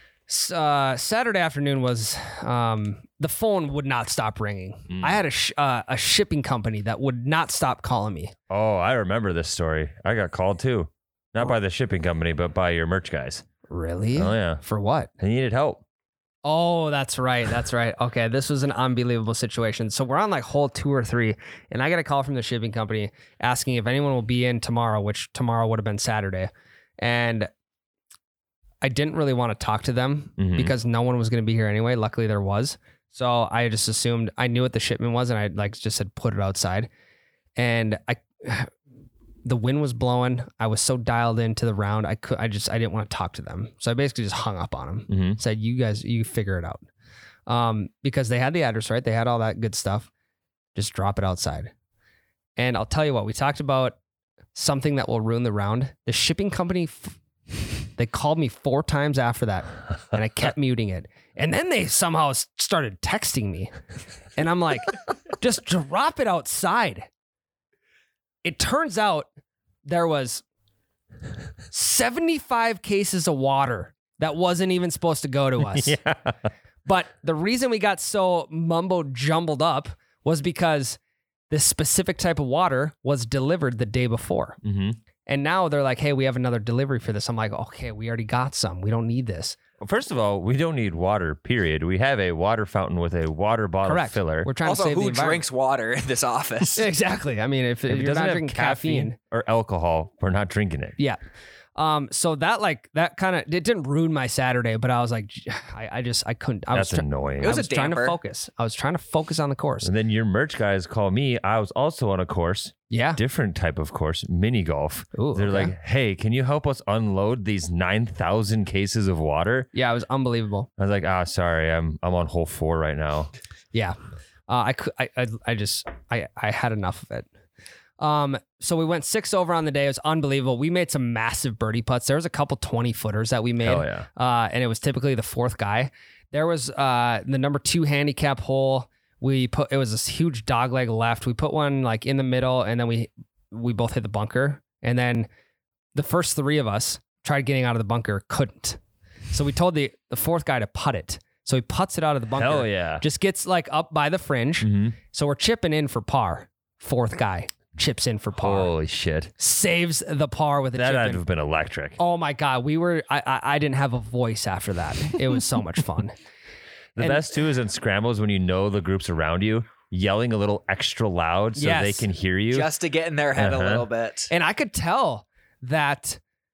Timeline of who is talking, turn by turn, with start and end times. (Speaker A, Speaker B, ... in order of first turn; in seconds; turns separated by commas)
Speaker A: 0.3-8.3, Speaker B: 4.9-5.2, Speaker B: 8.5-13.4, Speaker A: 13.7-15.1, Speaker B: 14.1-14.6, Speaker B: 15.2-15.8, Speaker A: 16.4-27.5, Speaker A: 28.8-36.9, Speaker B: 30.4-30.7, Speaker A: 37.6-38.7, Speaker A: 39.4-46.8, Speaker B: 45.1-45.4, Speaker A: 47.5-50.1, Speaker A: 50.7-51.7, Speaker A: 52.6-54.0, Speaker A: 54.5-63.7, Speaker A: 64.3-67.1, Speaker A: 68.4-69.3, Speaker A: 69.8-70.4, Speaker A: 71.7-76.0, Speaker B: 75.6-76.4, Speaker A: 76.8-81.0, Speaker A: 81.5-84.6, Speaker B: 84.6-85.0, Speaker A: 85.2-89.6, Speaker B: 89.8-94.5, Speaker A: 93.8-95.4, Speaker C: 94.6-96.8, Speaker A: 96.8-99.2, Speaker B: 97.9-101.0, Speaker A: 101.8-109.9, Speaker B: 106.7-107.6, Speaker C: 107.4-108.2, Speaker B: 109.8-119.7, Speaker A: 112.9-113.2, Speaker A: 115.1-115.7, Speaker A: 119.7-120.7, Speaker B: 120.8-123.3, Speaker A: 124.5-127.3, Speaker A: 128.0-145.3, Speaker B: 133.6-134.1, Speaker A: 145.9-148.8, Speaker A: 149.3-158.7, Speaker B: 152.4-153.0, Speaker B: 154.6-154.9, Speaker B: 158.3-159.3, Speaker A: 159.4-161.2, Speaker B: 160.8-162.0, Speaker A: 162.0-166.1, Speaker B: 166.9-172.7, Speaker A: 171.6-172.1, Speaker C: 172.5-174.3, Speaker B: 173.3-173.8, Speaker A: 174.3-176.2